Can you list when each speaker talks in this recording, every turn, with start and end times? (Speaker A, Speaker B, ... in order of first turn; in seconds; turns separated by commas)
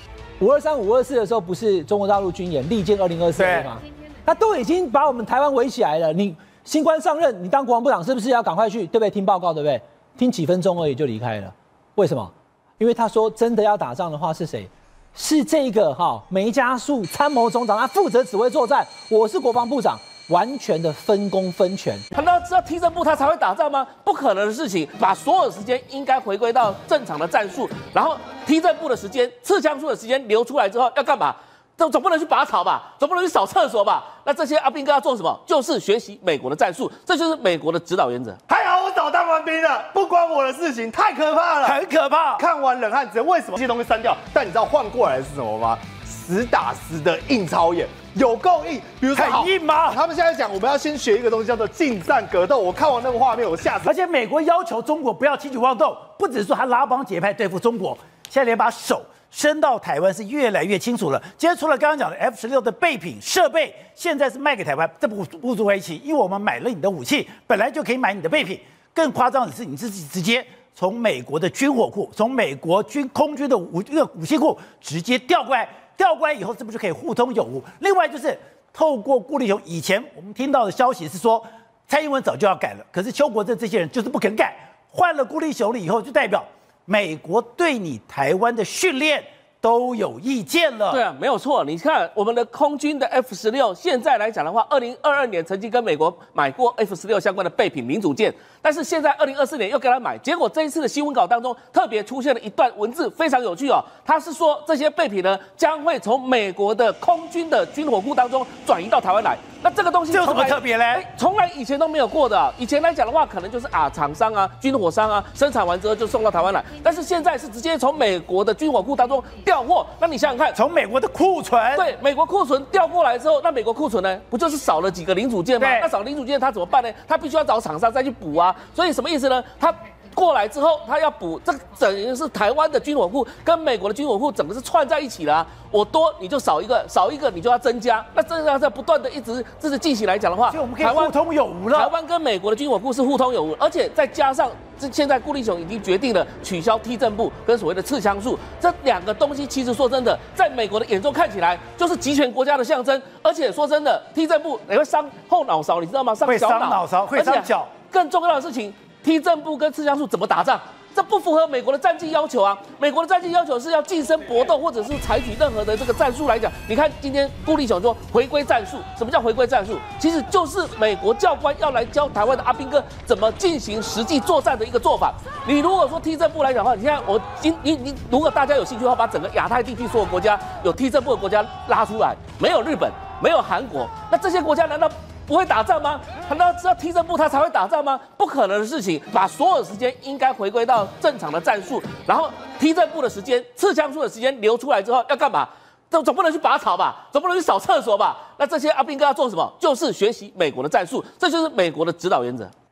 Speaker A: 0.4-22.0, Speaker B: 3.4-3.7, Speaker C: 22.1-38.4, Speaker D: 38.5-41.8, Speaker B: 41.6-42.4, Speaker D: 42.4-53.9, Speaker B: 49.1-50.0, Speaker B: 53.8-91.0, Speaker C: 90.9-120.6, Speaker B: 110.1-111.1, Speaker B: 120.5-121.8, Speaker C: 121.8-141.1, Speaker B: 125.6-125.9, Speaker B: 140.5-141.9, Speaker C: 141.7-202.5, Speaker B: 156.2-157.7